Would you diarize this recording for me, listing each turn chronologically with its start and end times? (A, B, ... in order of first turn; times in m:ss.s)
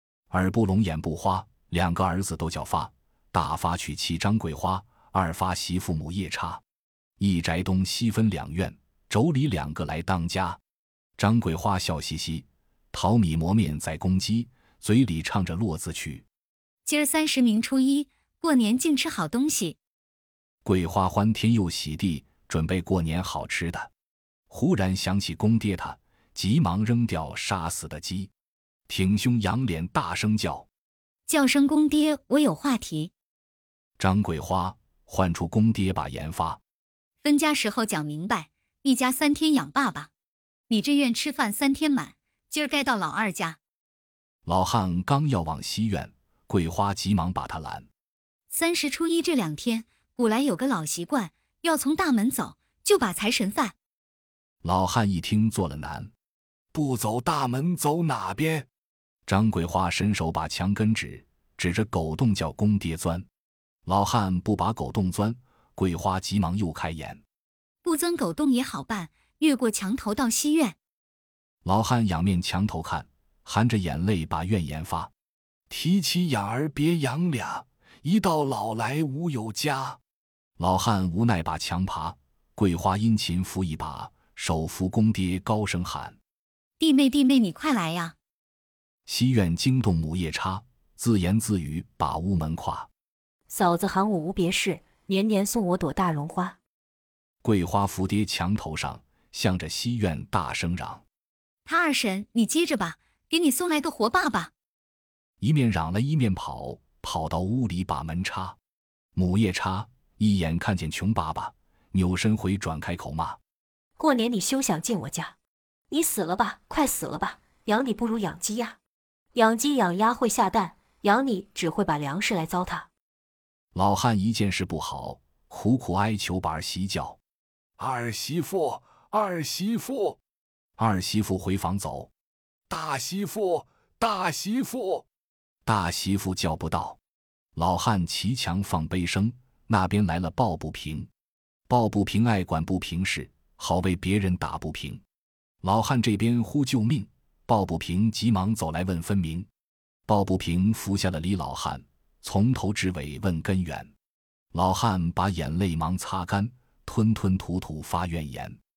0:00.3-0:06.6 A
0:07.2-0:10.6 A
0:11.2-0:16.3 A
0:16.8-0:19.8 B
0:20.6-0:23.9 A
0:24.5-0:28.3 A
0:28.9-0:30.7 A
0:31.3-0:33.1 B
0:34.0-0:36.6 A
0:37.2-0:40.1 B
0:40.7-0:43.6 B
0:44.5-0:47.9 A
0:48.5-0:53.8 B
0:54.6-0:56.1 A
0:56.7-0:58.7 A
0:59.3-1:03.3 A
1:03.9-1:07.2 A
1:07.8-1:10.8 B
1:11.6-1:15.1 A
1:15.7-1:20.0 A
1:20.6-1:26.2 A
1:26.8-1:28.2 B
1:29.1-1:32.9 A
1:33.5-1:36.6 C
1:37.4-1:41.0 A
1:41.6-1:44.5 B
1:45.4-1:48.6 A
1:49.2-1:53.4 A
1:54.0-1:55.4 C
1:55.9-1:58.8 C
1:59.3-2:02.9 C
2:03.7-2:07.2 A
2:07.8-2:10.2 A
2:10.8-2:12.1 A
2:12.7-2:15.0 A
2:15.7-2:17.0 A
2:17.6-2:21.1 A
2:21.7-2:25.0 A
2:25.6-2:29.5 A
2:30.1-2:33.9 A
2:34.5-2:38.6 A